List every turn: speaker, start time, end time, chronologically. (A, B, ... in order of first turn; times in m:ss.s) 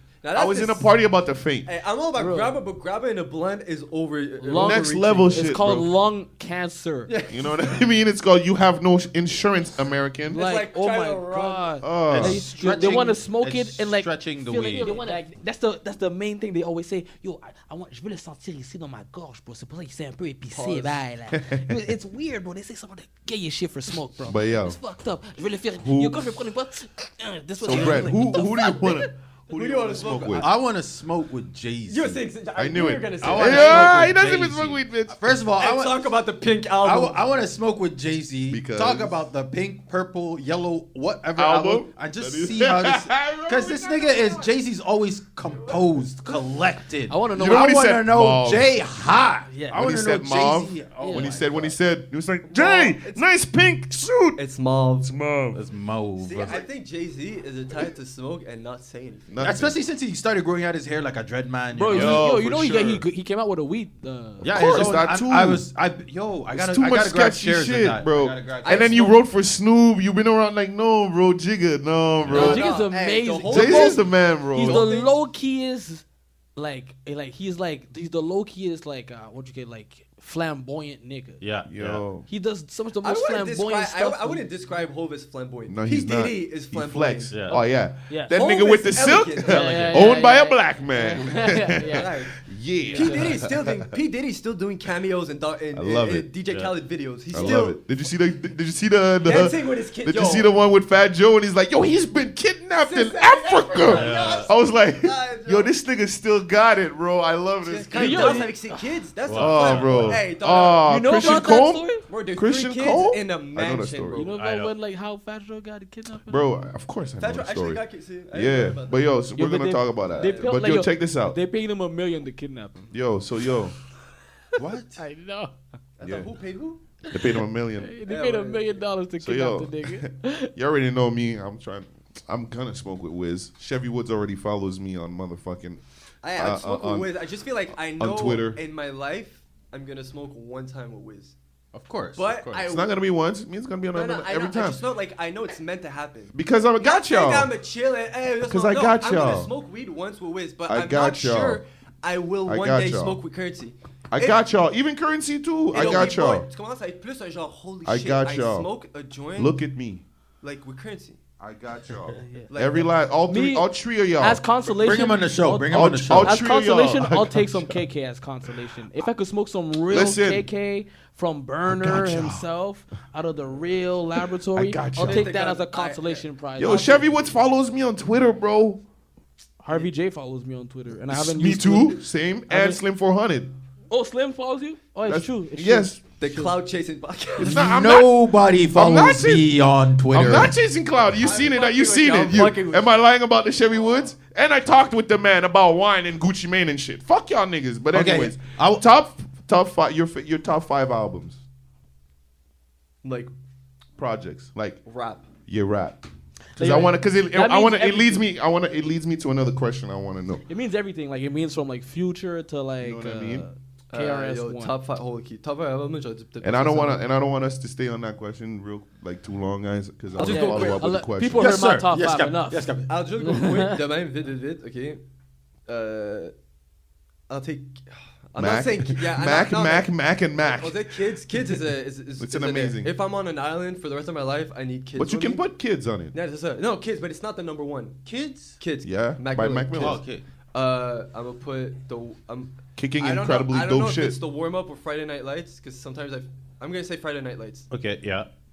0:00.2-0:00.9 A
0:00.3-0:01.7 B
0:01.6-0:05.5 A
0:02.2-0:02.6 C
0:04.4-0:07.1 C
0:04.5-0:05.9 B
0:07.1-0:07.8 A
0:07.3-0:10.4 B
0:10.3-0:11.7 A
0:10.3-0:29.1 C
0:11.8-0:12.4 B
0:12.1-0:15.0 D
0:12.6-0:13.1 A
0:14.8-0:15.3 A
0:20.5-0:21.0 A
0:21.3-0:21.9 B
0:24.2-0:24.8 B
0:25.8-0:26.4 B
0:27.6-0:30.5 B
0:27.7-0:28.0 A
0:29.5-0:30.5 A
0:30.3-0:32.3 D
0:31.9-0:34.1 A
0:32.6-0:35.2 B
0:33.2-0:36.2 D
0:35.6-0:37.2 A
0:36.8-0:51.8 D
0:38.5-0:39.2 B
0:41.4-0:44.3 B
0:44.2-0:44.4 A
0:47.1-0:47.8 C
0:47.3-0:48.7 B
0:49.5-0:49.8 C
0:49.7-0:52.8 B
0:51.0-0:51.3 C
0:52.4-0:54.4 E
0:52.5-0:53.2 A
0:54.4-0:55.1 A
0:55.0-0:55.6 E
0:55.5-0:56.6 D
0:56.2-0:59.6 A
0:59.3-0:59.8 B
0:59.4-1:02.3 D
1:01.7-1:04.8 C
1:01.9-1:03.0 B
1:04.4-1:09.1 D
1:04.5-1:05.7 B
1:06.5-1:12.7 B
1:08.6-1:09.2 A
1:12.2-1:12.6 D
1:12.3-1:15.1 A
1:12.4-1:14.0 C
1:13.5-1:14.8 B
1:14.5-1:16.0 C
1:16.6-1:21.4 C
1:21.4-1:22.0 D
1:21.7-1:22.3 B
1:22.3-1:24.4 C
1:23.0-1:27.6 A
1:25.7-1:33.7 B
1:27.3-1:27.6 D
1:28.1-1:28.4 C
1:28.3-1:30.2 A
1:29.4-1:32.1 C
1:31.8-1:37.8 A
1:32.9-1:33.4 C
1:35.7-1:36.3 B
1:36.5-1:36.8 D
1:37.3-1:48.5 B
1:39.2-1:40.5 A
1:42.8-1:45.7 A
1:43.9-1:44.5 D
1:47.6-1:54.3 A
1:48.0-1:48.7 C
1:49.2-1:50.2 D
1:49.3-1:54.2 B
1:50.8-1:52.0 C
1:54.1-1:56.6 C
1:54.2-1:54.7 D
1:56.3-2:01.4 B
1:57.2-1:59.1 A
1:59.4-2:02.9 C
2:00.0-2:00.6 A
2:02.9-2:03.8 B
2:04.6-2:05.0 D
2:04.6-2:05.6 C
2:06.0-2:06.8 A
2:06.0-2:06.3 B
2:07.1-2:08.0 B
2:07.1-2:10.5 C
2:08.0-2:08.8 A
2:09.2-2:15.8 B
2:16.2-2:21.4 A
2:16.4-2:17.1 B
2:18.0-2:18.6 B
2:21.7-2:22.6 D
2:22.2-2:22.9 A
2:22.6-2:24.8 B
2:23.9-2:34.4 A
2:26.3-2:27.5 B
2:28.4-2:29.5 B
2:30.7-2:31.6 B
2:32.4-2:33.2 B
2:34.1-2:36.5 B
2:35.7-2:39.6 A
2:37.8-2:38.7 B
2:39.4-2:40.0 B
2:40.4-2:41.2 A
2:41.4-2:44.7 B
2:42.1-2:42.5 C
2:42.5-2:43.0 A
2:43.3-2:43.7 C
2:44.2-2:57.0 C
2:44.8-2:46.4 D
2:45.7-2:47.8 B
2:49.9-2:50.5 B
2:51.7-2:52.4 B
2:54.5-2:55.3 B
2:55.0-2:57.2 A
2:56.6-2:58.8 B
2:59.6-3:02.8 C
3:01.1-3:03.5 B
3:03.9-3:06.6 C
3:05.0-3:06.0 B
3:06.2-3:07.7 A
3:07.4-3:09.5 B
3:07.4-3:10.6 D
3:10.1-3:21.4 B
3:11.2-3:12.9 A
3:17.9-3:18.8 D
3:23.0-3:23.3 A
3:24.0-3:24.8 B
3:24.8-3:25.3 A
3:25.5-3:26.0 B
3:26.6-3:28.3 C
3:26.6-3:30.4 B
3:30.5-3:34.7 C
3:32.8-3:33.5 B
3:33.9-3:37.0 A
3:36.4-3:41.5 B
3:40.2-3:40.8 A
3:40.2-3:42.7 C
3:41.4-3:43.1 D
3:42.9-3:45.0 A
3:43.2-3:43.8 C
3:45.7-3:46.3 A
3:47.3-3:49.9 A
3:48.4-3:51.0 B
3:50.4-3:55.4 A
3:52.2-3:52.9 B
3:55.0-3:56.1 B
3:56.1-3:58.0 A
3:58.1-3:58.6 D
3:58.6-4:07.7 A
3:58.8-4:00.0 B
3:59.8-4:00.2 D
4:02.8-4:04.2 B
4:07.7-4:08.3 D